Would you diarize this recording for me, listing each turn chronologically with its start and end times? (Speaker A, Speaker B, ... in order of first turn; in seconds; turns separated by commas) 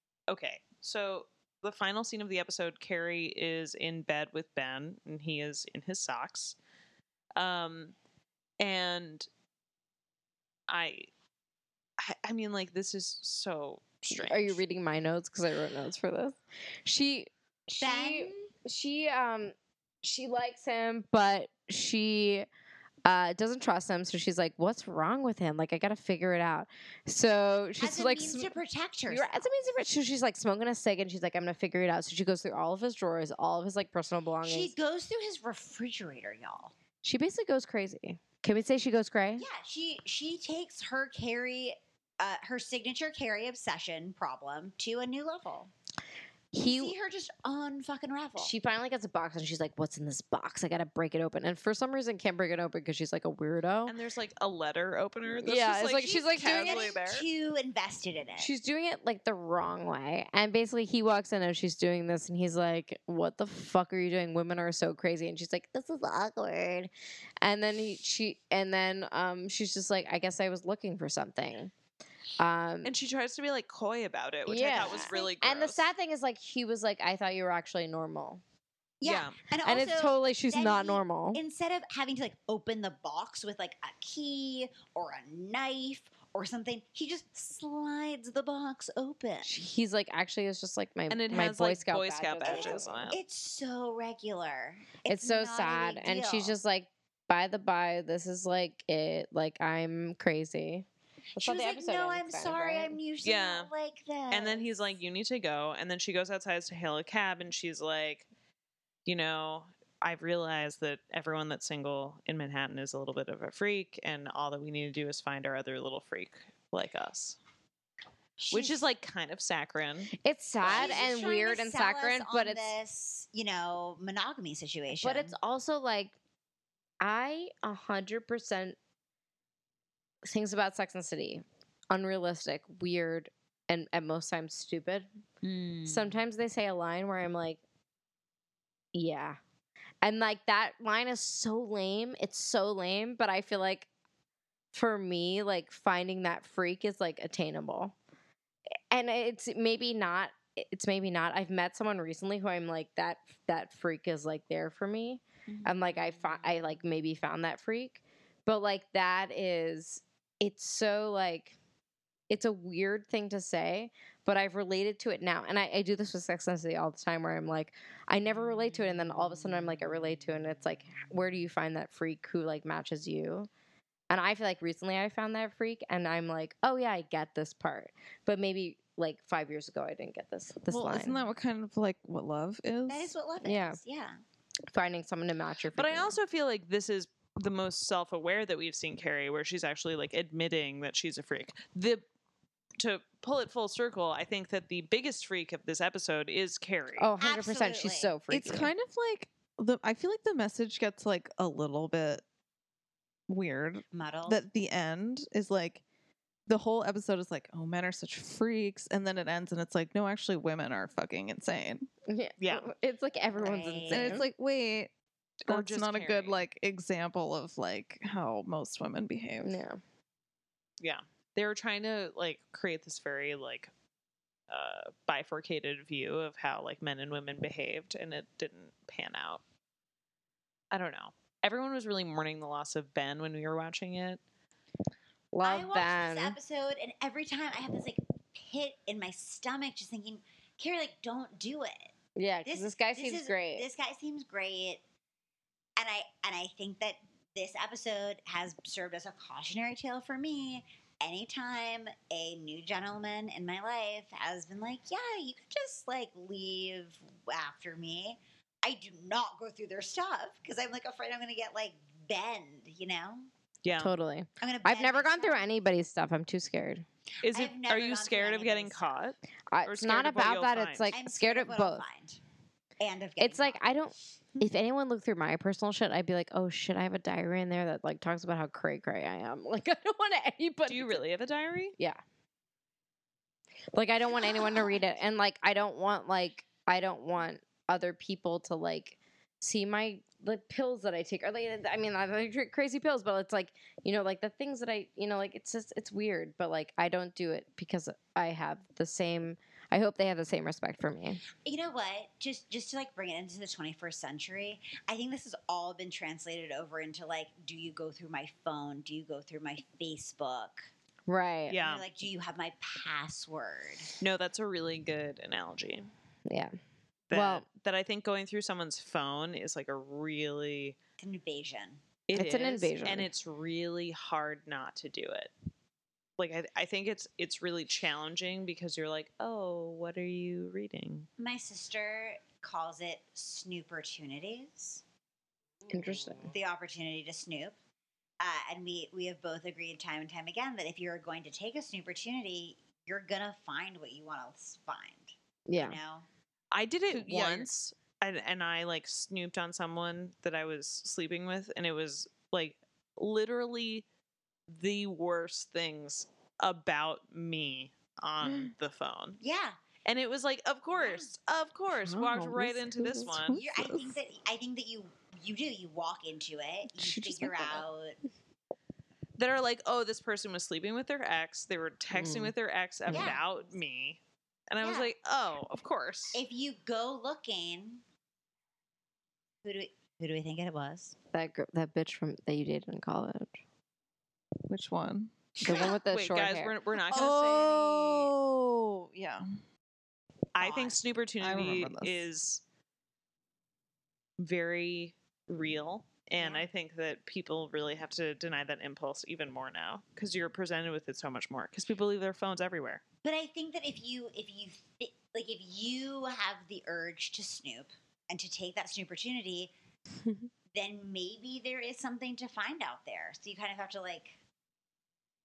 Speaker A: 0.3-6.6, Speaker A: 7.4-8.0, Speaker A: 8.6-9.3, Speaker A: 10.7-11.1, Speaker A: 12.0-14.6, Speaker B: 14.1-22.5, Speaker C: 17.8-18.5, Speaker B: 23.1-28.5, Speaker C: 27.8-29.5, Speaker B: 29.1-34.7, Speaker C: 34.5-36.7, Speaker B: 37.0-39.5, Speaker C: 39.4-45.7, Speaker B: 46.5-46.9, Speaker C: 46.6-48.5, Speaker B: 48.4-54.0, Speaker A: 53.9-57.3, Speaker B: 55.4-56.9, Speaker C: 56.3-58.5, Speaker B: 58.4-66.9, Speaker B: 67.4-71.7, Speaker B: 72.4-72.9, Speaker A: 72.8-75.9, Speaker B: 74.5-78.4, Speaker C: 79.0-89.7, Speaker A: 79.0-79.4, Speaker B: 79.6-81.4, Speaker B: 89.5-93.1, Speaker A: 91.1-93.2, Speaker C: 92.4-96.5, Speaker B: 95.1-103.0, Speaker C: 101.4-104.8, Speaker A: 103.2-103.7, Speaker A: 104.3-108.3, Speaker A: 109.1-117.4, Speaker C: 118.4-118.9, Speaker A: 118.5-120.1, Speaker B: 120.2-122.6, Speaker C: 120.6-125.3, Speaker A: 120.6-121.0, Speaker B: 125.0-126.2, Speaker B: 127.0-128.8, Speaker B: 130.2-135.1, Speaker C: 135.4-136.2, Speaker B: 135.9-137.6, Speaker B: 138.9-139.4, Speaker B: 140.0-143.9, Speaker B: 144.7-147.9, Speaker B: 148.9-161.6, Speaker C: 155.5-156.5, Speaker B: 162.3-173.5, Speaker B: 174.1-181.2, Speaker D: 180.7-183.1, Speaker C: 182.9-184.2, Speaker B: 183.4-183.8, Speaker B: 184.7-186.2, Speaker A: 185.8-192.0, Speaker A: 192.8-197.1, Speaker B: 197.0-198.7, Speaker C: 197.2-198.1, Speaker D: 198.3-202.2, Speaker D: 203.3-205.8, Speaker C: 203.9-204.4, Speaker D: 206.5-211.9, Speaker B: 212.1-214.3, Speaker A: 212.4-212.7, Speaker C: 213.4-214.3, Speaker D: 213.9-214.9, Speaker A: 215.5-216.4, Speaker D: 215.5-219.6, Speaker B: 219.4-219.8, Speaker A: 220.8-223.7, Speaker A: 224.5-229.4, Speaker A: 230.7-234.2, Speaker B: 235.3-236.4, Speaker C: 235.4-241.9, Speaker B: 242.2-243.7, Speaker C: 242.5-244.8, Speaker C: 245.8-263.3, Speaker A: 263.6-263.9, Speaker B: 263.8-266.9, Speaker C: 264.4-265.5, Speaker C: 267.2-269.0, Speaker A: 267.2-270.9, Speaker B: 269.5-271.8, Speaker C: 270.9-272.2, Speaker C: 272.8-273.6, Speaker B: 273.2-281.0, Speaker A: 280.7-281.8, Speaker B: 283.7-301.2, Speaker C: 284.1-284.7, Speaker C: 301.4-310.7, Speaker B: 311.1-311.6, Speaker A: 311.5-311.9, Speaker C: 311.6-313.9, Speaker A: 314.0-315.9, Speaker B: 316.3-316.5, Speaker A: 317.1-320.8, Speaker B: 317.1-317.4, Speaker C: 321.0-321.8, Speaker A: 322.1-325.3, Speaker B: 322.1-323.1, Speaker A: 326.2-331.1, Speaker C: 331.2-334.8, Speaker B: 335.7-336.3, Speaker C: 336.2-337.6, Speaker C: 338.2-346.1, Speaker B: 345.5-345.8, Speaker A: 346.5-353.9, Speaker D: 346.9-347.5, Speaker A: 354.5-359.2, Speaker D: 358.2-358.5, Speaker C: 359.2-359.6, Speaker A: 359.9-363.4, Speaker C: 360.7-361.1, Speaker B: 361.9-363.2, Speaker D: 362.8-364.0, Speaker C: 363.4-368.0, Speaker B: 366.8-367.6, Speaker A: 369.2-374.0, Speaker B: 371.9-372.3, Speaker C: 372.9-373.2, Speaker A: 374.5-376.2, Speaker C: 374.6-374.9, Speaker C: 376.1-377.8, Speaker C: 379.4-380.9, Speaker B: 381.1-383.4, Speaker D: 384.5-385.1, Speaker C: 385.4-385.8, Speaker B: 385.4-386.6, Speaker A: 385.5-388.1, Speaker D: 386.8-389.3, Speaker A: 390.4-392.4, Speaker C: 390.4-390.8, Speaker D: 391.2-392.1, Speaker A: 394.2-402.8, Speaker C: 396.2-396.5, Speaker C: 403.0-409.5, Speaker C: 410.5-414.2